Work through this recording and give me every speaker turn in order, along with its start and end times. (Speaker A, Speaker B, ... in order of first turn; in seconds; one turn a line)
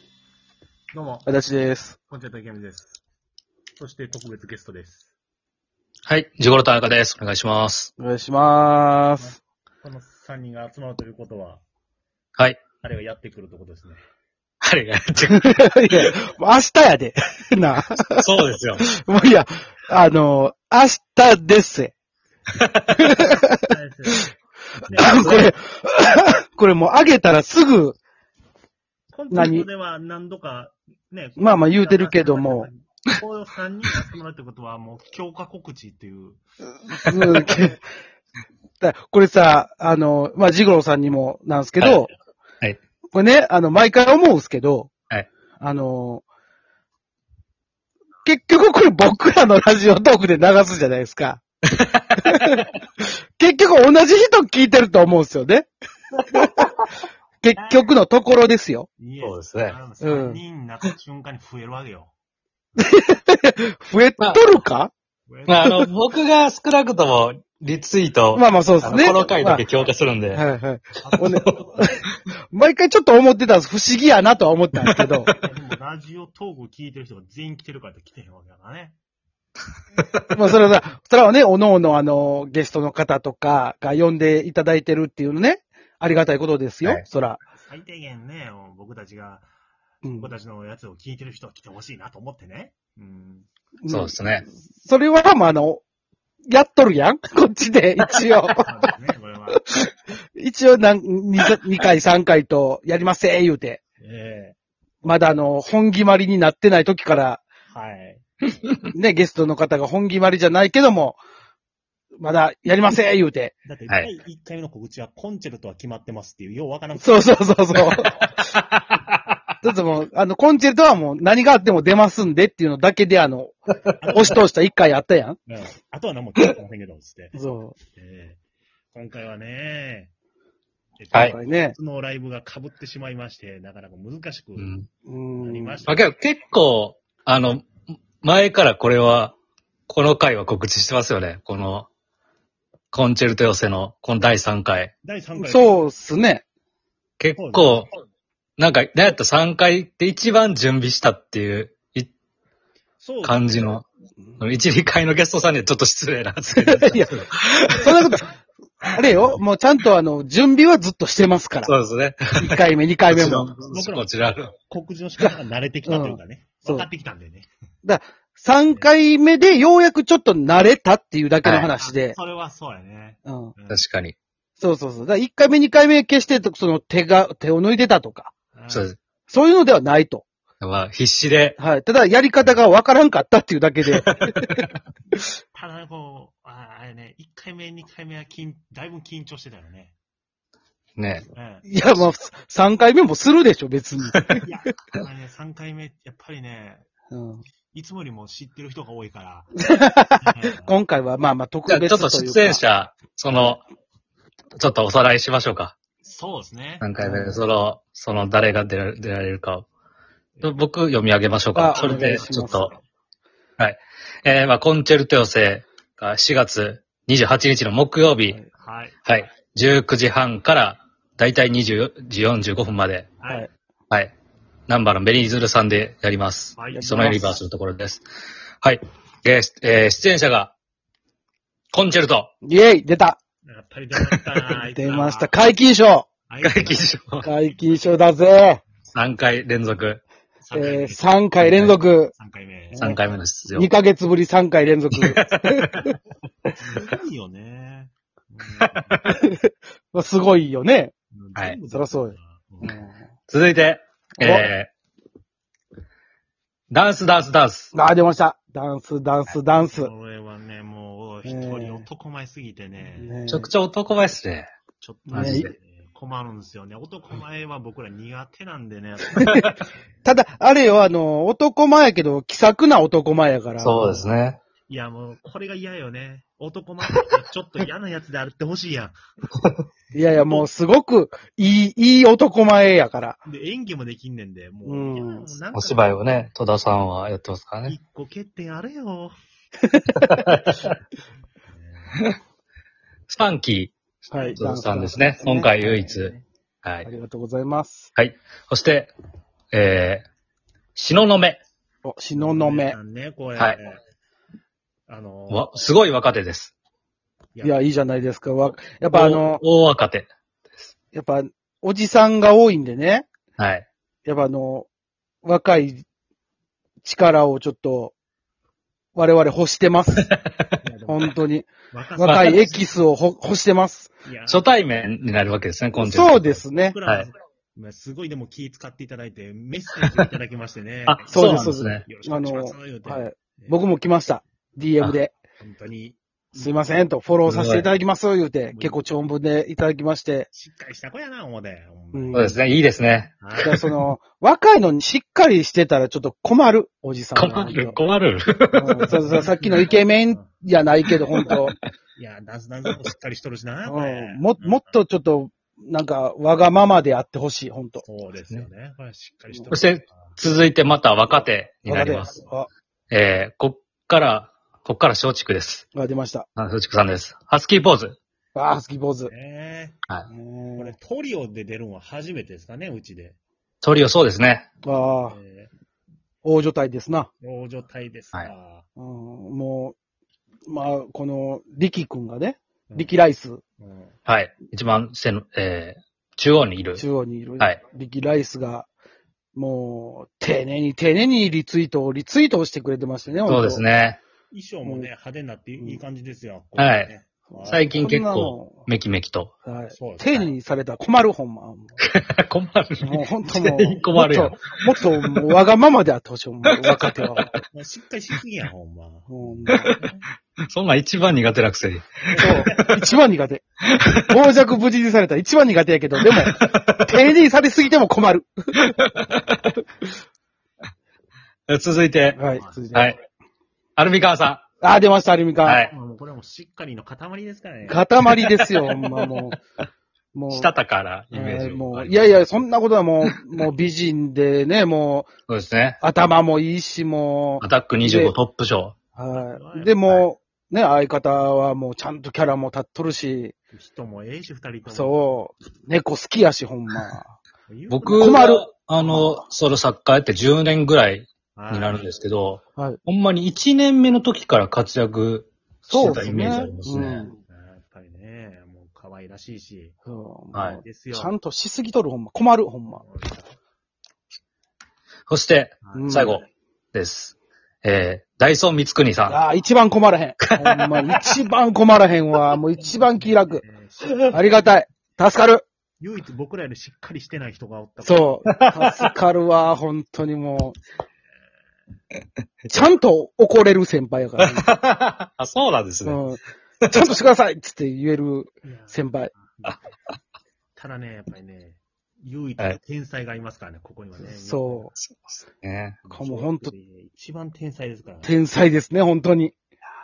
Speaker A: 0.9-1.3
Speaker B: 1.3-2.0
Speaker A: 2.1-3.0
Speaker A: 3.8-5.1
Speaker C: 6.1-7.9
Speaker B: 8.0-9.4
Speaker A: 9.2-11.6
Speaker A: 12.8-14.0
Speaker C: 14.6-16.1
Speaker B: 15.3-18.3
Speaker C: 18.2-18.9
Speaker B: 18.8-21.9
Speaker C: 22.6-23.0
Speaker B: 23.0-24.3
Speaker A: 23.2-24.3
Speaker A: 24.9-25.5
Speaker B: 24.9-28.0
Speaker C: 25.0-25.5
Speaker A: 29.1-36.4
Speaker B: 29.3-29.7
Speaker B: 31.4-32.7
Speaker B: 37.0-37.8
Speaker A: 37.1-37.5
Speaker B: 38.8-42.1
Speaker B: 43.1-44.9
Speaker B: 45.6-46.2
Speaker B: 48.2-51.4
Speaker C: 51.9-52.6
Speaker B: 52.2-52.6
Speaker B: 53.4-55.7
Speaker B: 57.4-58.9
Speaker A: 57.6-57.9
Speaker A: 59.0-62.1
Speaker C: 59.2-59.8
Speaker B: 60.0-60.4
Speaker B: 62.8-64.9
Speaker C: 64.2-64.5
Speaker A: 65.3-65.7
Speaker C: 65.5-70.5
Speaker B: 65.6-65.9
Speaker B: 68.3-69.7
Speaker B: 70.3-72.0
Speaker A: 71.0-71.9
Speaker C: 71.2-71.4
Speaker B: 72.5-75.3
Speaker C: 74.9-75.4
Speaker A: 75.4-79.0
Speaker B: 80.3-87.4
Speaker A: 87.6-89.5
Speaker B: 90.0-90.3
Speaker A: 90.1-93.5
Speaker B: 93.8-95.8
Speaker C: 93.9-94.5
Speaker B: 96.5-98.7
Speaker A: 98.6-99.7
Speaker B: 99.6-103.8
Speaker A: 104.0-104.6
Speaker B: 105.0-107.4
Speaker A: 107.7-108.2
Speaker B: 108.9-111.2
Speaker B: 112.2-113.6
Speaker A: 113.7-118.1
Speaker B: 117.0-118.2
Speaker B: 119.6-123.5
Speaker A: 124.0-124.4
Speaker B: 124.1-125.4
Speaker A: 125.5-127.4
Speaker B: 127.3-127.8
Speaker A: 128.0-128.4
Speaker A: 128.9-130.1
Speaker A: 131.0-134.7
Speaker B: 131.2-131.8
Speaker C: 134.6-134.9
Speaker B: 135.1-135.8
Speaker A: 135.4-136.1
Speaker C: 135.9-139.3
Speaker C: 139.9-141.9
Speaker C: 142.9-144.9
Speaker A: 145.0-145.9
Speaker B: 145.4-146.4
Speaker C: 147.2-147.9
Speaker A: 147.4-147.9
Speaker C: 148.6-152.1
Speaker A: 153.0-153.8
Speaker C: 153.2-153.8
Speaker C: 154.4-157.2
Speaker B: 156.5-158.3
Speaker C: 157.8-158.2
Speaker B: 158.8-161.7
Speaker C: 161.7-164.5
Speaker B: 162.4-163.6
Speaker A: 163.7-167.5
Speaker B: 165.9-166.9
Speaker B: 167.8-172.2
Speaker C: 171.4-171.7
Speaker A: 171.8-173.8
Speaker B: 173.2-173.5
Speaker C: 173.7-174.2
Speaker B: 174.6-178.3
Speaker A: 178.5-178.9
Speaker C: 178.7-179.0
Speaker B: 179.3-180.2
Speaker C: 180.6-181.6
Speaker B: 181.6-184.7
Speaker A: 185.5-189.9
Speaker C: 191.0-191.3
Speaker A: 191.3-191.7
Speaker B: 191.7-194.4
Speaker A: 194.4-196.9
Speaker B: 197.1-197.4
Speaker A: 197.7-199.7
Speaker B: 199.6-202.6
Speaker A: 200.2-200.7
Speaker C: 201.7-203.6
Speaker C: 204.6-205.8
Speaker A: 206.1-206.9
Speaker C: 206.8-209.7
Speaker B: 207.0-207.4
Speaker C: 210.4-212.7
Speaker B: 211.5-212.7
Speaker A: 211.7-212.8
Speaker C: 213.6-218.4
Speaker A: 218.6-218.9
Speaker C: 219.1-223.1
Speaker A: 223.2-223.5
Speaker C: 224.7-228.0
Speaker A: 226.6-227.2
Speaker B: 226.7-227.3
Speaker C: 228.6-230.5
Speaker C: 231.7-232.3
Speaker B: 232.4-233.2
Speaker A: 233.4-235.5
Speaker B: 234.6-236.1
Speaker A: 236.3-237.6
Speaker C: 236.4-237.3
Speaker B: 237.2-238.6
Speaker C: 238.9-240.0
Speaker A: 240.4-241.1
Speaker B: 240.5-242.1
Speaker C: 241.4-241.8
Speaker A: 242.1-243.0
Speaker C: 242.8-243.7
Speaker B: 243.6-245.8
Speaker C: 245.0-245.9
Speaker A: 246.6-249.0
Speaker B: 249.2-250.9
Speaker A: 251.1-252.8
Speaker B: 251.7-253.0
Speaker C: 253.3-254.7
Speaker B: 254.2-254.5
Speaker C: 256.7-257.7
Speaker B: 257.7-259.9
Speaker A: 259.3-263.2
Speaker B: 261.2-261.8
Speaker B: 263.0-263.5
Speaker C: 263.3-264.5
Speaker A: 264.8-269.5
Speaker B: 265.1-265.5
Speaker C: 265.1-265.5
Speaker B: 270.1-274.0
Speaker C: 273.6-274.4
Speaker A: 274.7-278.9
Speaker B: 279.9-283.2
Speaker A: 280.0-280.5
Speaker A: 283.3-286.2
Speaker B: 284.6-285.3
Speaker C: 285.5-287.8
Speaker A: 287.7-289.1
Speaker B: 289.9-290.2
Speaker C: 290.0-290.7
Speaker A: 291.4-292.0
Speaker C: 293.1-296.9
Speaker B: 294.1-295.8
Speaker A: 294.1-294.4
Speaker A: 295.6-296.2
Speaker B: 296.9-297.9
Speaker C: 297.9-298.9
Speaker C: 299.5-300.1
Speaker C: 300.8-301.4
Speaker B: 301.8-302.8
Speaker A: 302.1-303.8
Speaker A: 304.9-305.5
Speaker C: 305.3-306.5
Speaker B: 307.4-309.4
Speaker C: 308.9-310.1
Speaker B: 310.9-313.1
Speaker C: 313.4-313.7
Speaker B: 314.1-314.7
Speaker B: 315.2-315.8
Speaker B: 316.8-317.9
Speaker B: 318.9-320.1
Speaker A: 320.6-321.2
Speaker B: 320.9-323.9
Speaker A: 321.7-322.7
Speaker C: 322.1-322.3
Speaker A: 324.0-324.5
Speaker C: 324.3-327.1
Speaker B: 325.8-326.8
Speaker A: 326.4-333.6
Speaker C: 330.9-331.9
Speaker B: 331.1-335.1
Speaker A: 335.4-336.7
Speaker B: 336.4-340.3
Speaker C: 337.3-337.7
Speaker A: 338.5-338.8
Speaker A: 340.3-342.4
Speaker B: 341.9-342.2
Speaker C: 342.1-343.6
Speaker A: 343.2-343.6
Speaker B: 343.4-347.8
Speaker C: 347.1-348.9
Speaker B: 348.6-351.6
Speaker A: 349.1-350.3
Speaker A: 352.0-354.8
Speaker B: 353.7-357.9
Speaker A: 357.8-360.4
Speaker C: 359.5-362.1
Speaker B: 361.7-362.5
Speaker C: 362.9-365.6
Speaker B: 365.8-366.3
Speaker C: 366.4-368.0
Speaker B: 368.4-369.1
Speaker A: 369.1-369.8
Speaker B: 370.1-370.8
Speaker A: 370.6-373.2
Speaker C: 373.6-374.5
Speaker B: 374.6-375.2
Speaker A: 374.9-375.5
Speaker B: 376.2-377.1
Speaker A: 377.2-378.7
Speaker B: 378.8-379.8
Speaker B: 380.5-383.4
Speaker A: 382.7-382.9
Speaker A: 383.6-384.0
Speaker C: 384.1-386.9
Speaker B: 386.8-388.7
Speaker B: 389.4-393.6
Speaker C: 393.3-394.0
Speaker A: 394.3-397.8
Speaker B: 394.6-394.9
Speaker C: 396.6-396.9
Speaker C: 397.5-399.3
Speaker B: 397.8-398.6
Speaker B: 399.4-401.8
Speaker A: 399.7-400.4
Speaker C: 401.8-405.2
Speaker B: 402.8-407.3
Speaker C: 406.4-407.3
Speaker A: 407.4-410.0
Speaker B: 409.1-409.7
Speaker C: 410.5-412.6
Speaker A: 412.1-412.8
Speaker B: 412.2-418.7
Speaker C: 416.1-416.9
Speaker C: 418.7-419.5
Speaker C: 421.5-422.2
Speaker B: 422.1-423.0
Speaker A: 422.2-422.6
Speaker C: 423.8-424.4
Speaker B: 424.6-425.7
Speaker C: 425.4-425.7
Speaker A: 425.7-427.9
Speaker B: 427.7-429.4
Speaker C: 428.1-429.0
Speaker B: 430.1-430.5
Speaker C: 430.3-432.3
Speaker B: 431.1-435.1
Speaker C: 435.3-435.8
Speaker B: 435.8-438.1
Speaker C: 437.4-438.8
Speaker B: 439.0-443.4
Speaker A: 439.1-440.1
Speaker A: 443.5-445.1
Speaker B: 444.7-447.2
Speaker A: 447.5-448.3
Speaker C: 447.7-457.1
Speaker B: 447.9-449.1
Speaker A: 451.4-451.9
Speaker B: 452.6-452.8
Speaker B: 455.7-457.1
Speaker A: 455.7-456.5
Speaker A: 457.3-459.8
Speaker B: 459.9-462.8
Speaker C: 460.3-460.6
Speaker A: 460.6-461.1
Speaker A: 462.7-463.4
Speaker C: 465.1-469.2
Speaker A: 465.6-466.1
Speaker B: 465.7-466.2
Speaker B: 469.1-473.4
Speaker C: 470.3-470.9
Speaker A: 472.6-474.5
Speaker B: 474.1-475.4
Speaker A: 475.8-478.3
Speaker B: 477.8-480.6
Speaker C: 478.3-478.9
Speaker B: 482.5-484.5
Speaker C: 484.2-486.0
Speaker B: 485.8-489.1
Speaker C: 486.6-487.0
Speaker A: 488.4-489.6
Speaker A: 490.6-494.7
Speaker B: 494.1-494.7
Speaker C: 494.8-495.8
Speaker A: 495.9-498.2
Speaker B: 495.9-496.5
Speaker B: 498.0-499.4